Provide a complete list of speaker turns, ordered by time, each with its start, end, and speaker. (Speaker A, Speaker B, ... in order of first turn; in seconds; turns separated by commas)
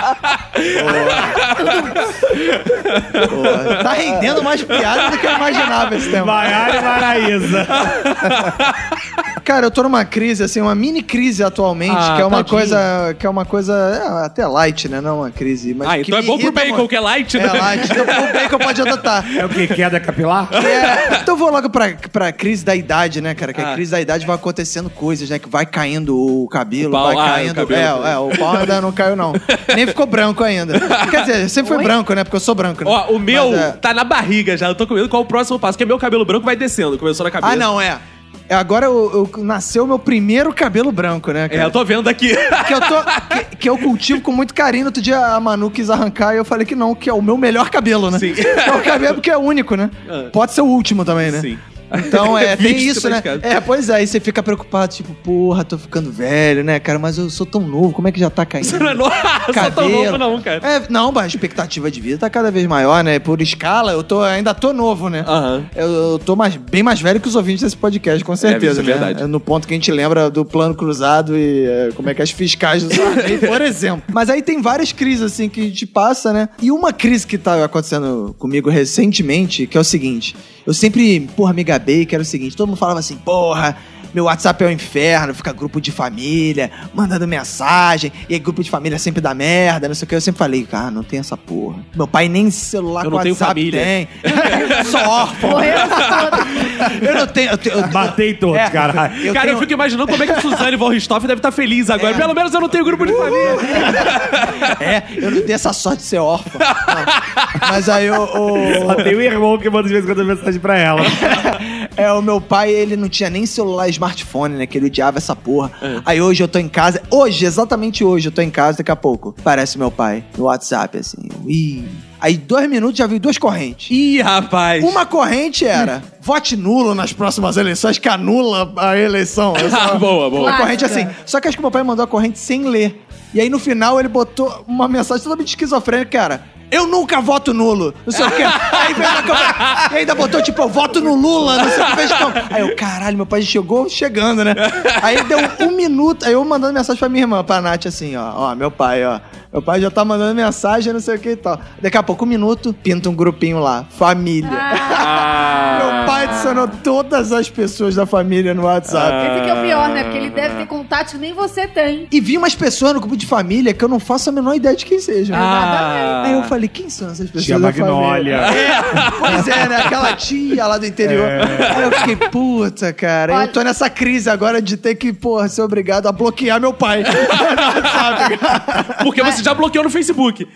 Speaker A: 0.3-6.1, Speaker B: 0.7-1.4, Speaker C: 1.6-2.1, Speaker B: 3.3-6.6, Speaker D: 6.1-8.5, Speaker A: 6.9-8.8, Speaker B: 9.4-19.4, Speaker A: 11.9-12.8, Speaker A: 15.8-18.8, Speaker D: 19.4-20.6, Speaker B: 20.5-33.8, Speaker A: 20.6-21.2, Speaker A: 23.5-23.8, Speaker A: 26.8-28.8, Speaker A: 29.4-29.9, Speaker A: 30.8-31.3, Speaker A: 32.8-37.7, Speaker B: 37.4-41.8, Speaker A: 41.5-43.4, Speaker B: 42.5-100.6, Speaker A: 48.1-49.1, Speaker A: 50.1-50.3, Speaker A: 51.2-53.5, Speaker A: 58.6-60.7, Speaker A: 65.2-65.7, Speaker A: 68.4-69.2, Speaker A: 93.0-96.2, Speaker C: 95.4-97.0, Speaker D: 97.9-99.3, Speaker A: 99.3-104.8, Speaker B: 102.0-109.1, Speaker A: 106.7-107.7, Speaker D: 108.7-111.4, Speaker A: 108.8-109.0, Speaker B: 111.0-123.9, Speaker A: 123.9-125.0, Speaker B: 124.8-159.3, Speaker A: 129.6-130.7, Speaker C: 130.4-131.1, Speaker A: 138.2-139.9, Speaker A: 141.6-142.6, Speaker A: 144.6-145.5, Speaker C: 154.4-155.0, Speaker A: 154.8-156.5, Speaker A: 158.9-160.7, Speaker C: 159.2-162.1, Speaker B: 162.1-165.5, Speaker C: 165.3-166.2, Speaker A: 165.3-166.5, Speaker B: 166.2-179.1, Speaker D: 167.4-168.6, Speaker A: 168.4-170.0, Speaker D: 171.0-171.9, Speaker A: 171.4-171.8, Speaker C: 173.3-173.6, Speaker A: 179.0-180.5